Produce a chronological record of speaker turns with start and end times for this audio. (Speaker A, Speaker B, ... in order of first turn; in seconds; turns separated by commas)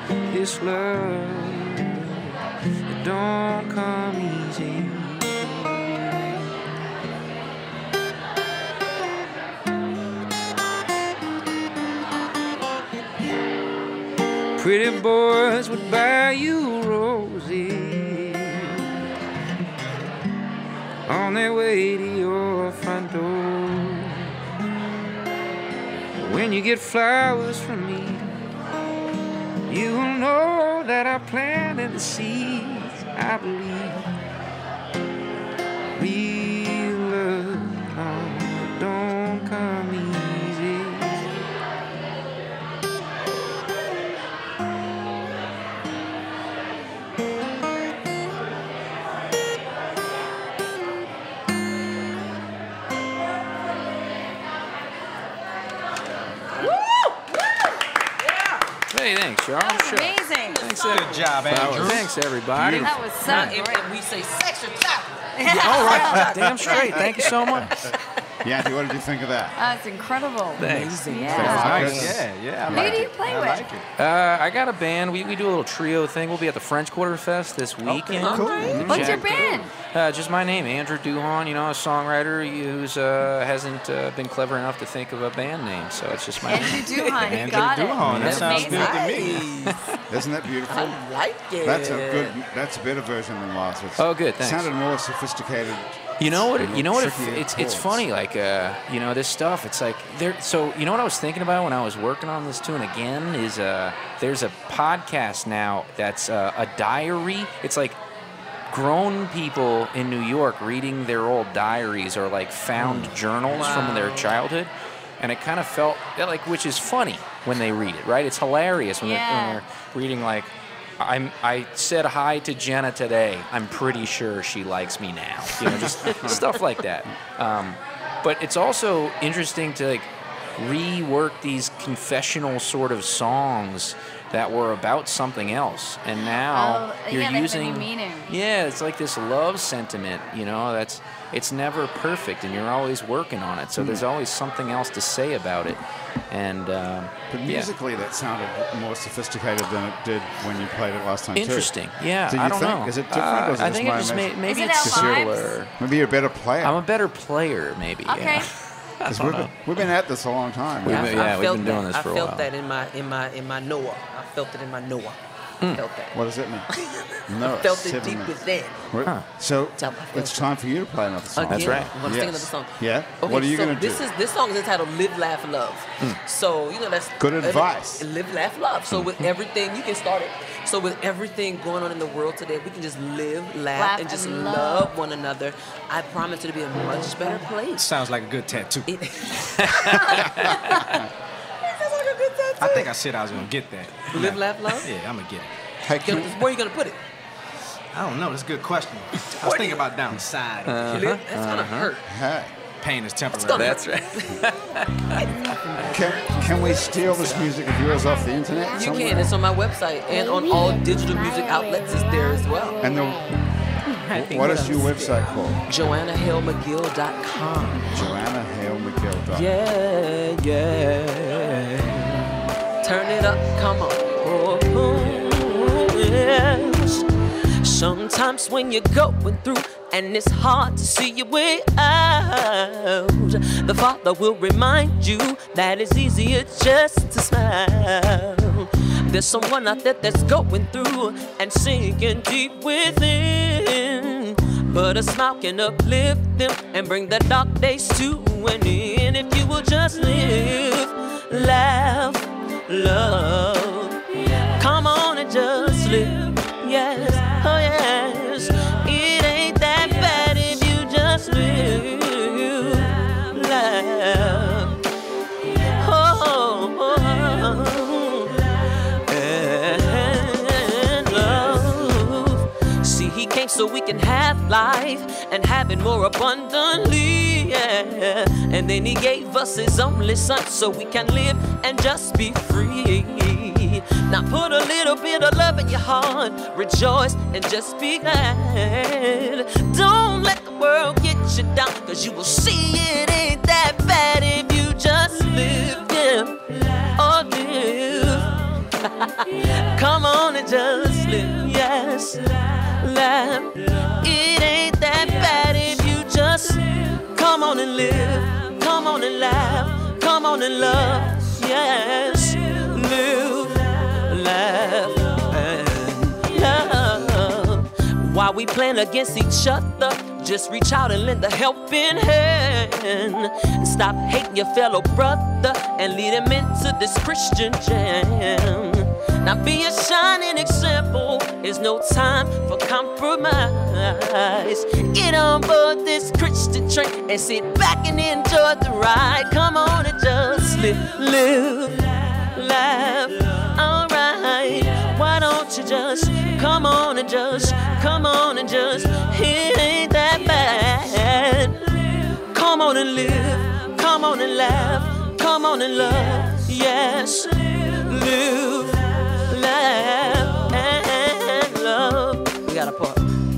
Speaker A: 0.3-2.4, Speaker A: 2.9-6.3, Speaker A: 14.6-18.9, Speaker A: 21.1-24.3, Speaker A: 26.2-28.3, Speaker A: 29.7-34.0, Speaker A: 36.0-41.2, Speaker B: 56.6-57.7, Speaker C: 58.9-63.5, Speaker D: 59.6-60.8, Speaker E: 60.8-63.4, Speaker D: 62.8-63.9, Speaker B: 63.2-67.6, Speaker D: 65.4-66.9, Speaker C: 65.6-67.8, Speaker F: 67.6-67.9, Speaker F: 68.4-69.6, Speaker D: 69.6-72.0, Speaker C: 70.6-71.5, Speaker B: 70.6-72.2, Speaker F: 71.3-73.1, Speaker E: 71.3-73.8, Speaker D: 72.7-73.7, Speaker C: 74.0-86.9, Speaker B: 77.9-79.6, Speaker F: 78.2-79.3, Speaker E: 78.3-78.7, Speaker D: 78.8-79.7, Speaker D: 86.5-89.3, Speaker B: 86.8-87.2, Speaker E: 87.2-89.6, Speaker C: 88.0-89.0, Speaker B: 88.4-89.8, Speaker F: 90.1-91.0, Speaker B: 90.7-92.4, Speaker F: 91.6-98.0, Speaker C: 94.0-94.7, Speaker C: 96.2-108.0, Speaker C: 108.7-147.7, Speaker F: 112.8-113.2, Speaker B: 113.5-114.4, Speaker D: 119.0-119.6, Speaker F: 125.6-126.5, Speaker D: 136.5-138.3, Speaker F: 143.8-144.1, Speaker F: 147.3-151.7, Speaker C: 151.3-155.7, Speaker F: 152.3-155.3, Speaker D: 154.5-155.6, Speaker F: 155.8-156.8, Speaker C: 156.6-159.5, Speaker D: 158.1-158.5, Speaker F: 159.1-161.3, Speaker C: 160.8-162.5, Speaker B: 160.8-165.2, Speaker B: 165.7-166.1, Speaker F: 166.1-166.7, Speaker B: 166.7-168.8, Speaker F: 167.3-168.3, Speaker F: 168.9-174.1, Speaker B: 169.8-170.5, Speaker B: 171.3-187.9, Speaker C: 171.5-171.9, Speaker F: 177.2-178.1, Speaker D: 183.8-184.9, Speaker E: 187.8-189.0, Speaker B: 188.9-191.1, Speaker C: 189.6-190.9, Speaker B: 191.6-192.9, Speaker E: 192.6-195.5, Speaker B: 194.1-194.9, Speaker F: 195.8-196.3, Speaker B: 196.0-197.0, Speaker E: 197.9-201.1, Speaker B: 199.4-199.8, Speaker C: 200.7-201.9, Speaker B: 200.8-202.0, Speaker F: 202.1-202.5, Speaker E: 202.8-203.8, Speaker B: 203.3-204.4, Speaker C: 203.6-205.3, Speaker B: 205.2-207.6, Speaker F: 205.8-209.4, Speaker B: 208.7-212.8, Speaker F: 212.8-213.3, Speaker B: 213.9-218.0, Speaker F: 214.1-215.7, Speaker F: 217.9-219.5, Speaker B: 219.3-227.1, Speaker B: 227.6-264.8, Speaker B: 265.8-363.0